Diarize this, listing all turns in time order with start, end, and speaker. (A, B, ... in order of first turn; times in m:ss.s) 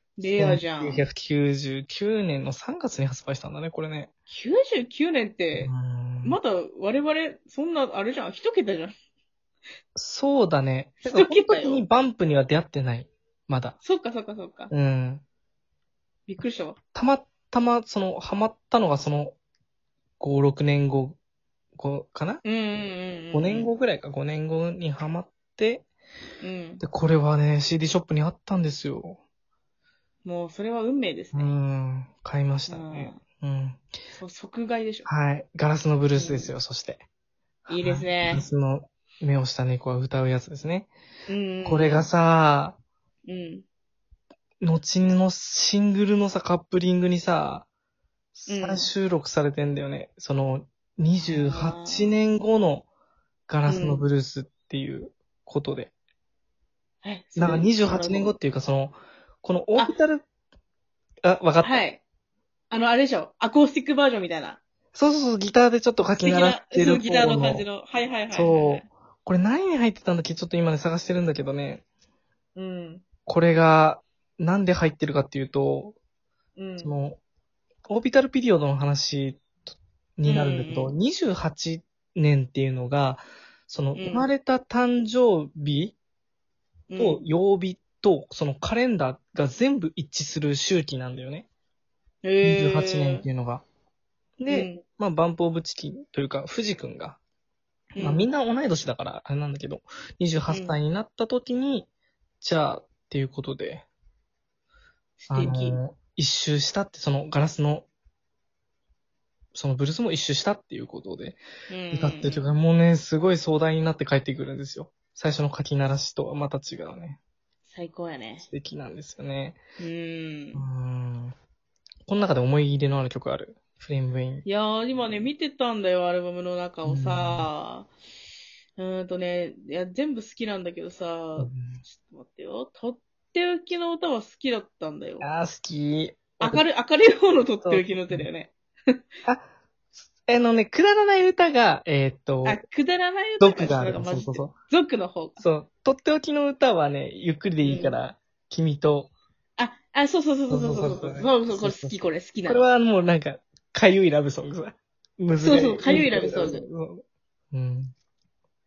0:00.2-0:01.0 A
0:00.2-0:04.1 B
0:04.3-0:05.7 A
0:05.6-0:06.4 B
0:06.2-0:08.9 A
0:10.0-0:13.8 B
0:11.1-0:11.8 A
0:13.8-0:14.7 A
0:14.7-0:15.2 B
0:16.3-0:16.8 A
0:17.0-0:19.4 B
0:20.2-0:21.2 B
0:21.8-0:22.4 B
0:22.4-0:23.7 A
0:23.3-0:25.9 B
0:26.4-0:26.8 A
0:26.8-0:29.2 B
0:30.2-0:31.5 A
0:31.3-0:33.8 B
0:32.7-0:33.2 A
0:34.2-0:35.1 A
0:35.1-0:37.0 B
0:36.2-0:36.5 A
0:37.7-0:40.9 B
0:37.7-0:38.4 A
0:41.3-0:42.1 A
0:41.6-0:42.8 B
0:43.3-0:43.7 A
0:44.6-0:47.7 B
0:48.4-0:52.9 B
0:48.5-0:48.9 A
0:51.2-0:52.2 A
0:53.5-0:55.9 B
0:53.7-0:54.1 A
0:57.0-0:58.4 A
0:57.4-1:00.2 B
1:01.2-1:01.8 B
1:01.6-1:02.0 A
1:02.7-1:04.6 A
1:04.9-1:07.6 B
1:06.2-1:08.8 A
1:08.3-1:11.8 B
1:12.6-1:13.0 A
1:13.3-1:16.0 B
1:16.6-1:16.9 A
1:16.8-1:17.2 B
1:17.9-1:26.0 B
1:20.2-1:20.9 A
1:24.0-1:24.3 A
1:26.9-1:27.2 A
1:27.0-1:31.5 B
1:32.2-1:33.2 A
1:32.4-1:33.6 B
1:34.4-1:37.2 B
1:34.5-1:34.8 A
1:38.0-1:38.3 A
1:38.0-1:41.9 B
1:40.5-1:40.8 A
1:42.4-1:43.8 B
1:45.2-1:45.8 A
1:45.3-1:47.9 B
1:49.5-1:51.4 B
1:51.7-1:52.4 A
1:51.9-1:57.2 B
1:57.7-1:58.5 A
1:58.4-1:59.6 B
1:59.8-2:00.6 A
2:00.6-2:01.4 B
2:02.1-2:04.4 B
2:04.4-2:07.9 A
2:06.8-2:07.5 B
2:08.8-2:15.3 A
2:11.4-2:11.8 B
2:15.2-2:16.6 B
2:16.4-2:18.5 A
2:17.6-2:18.3 B
2:20.3-2:22.6 B
2:22.4-2:25.4 A
2:23.4-2:24.5 B
2:25.4-2:29.1 B
2:27.6-2:28.0 A
2:29.6-2:32.6 A
2:30.5-2:37.9 B
2:35.4-2:36.7 A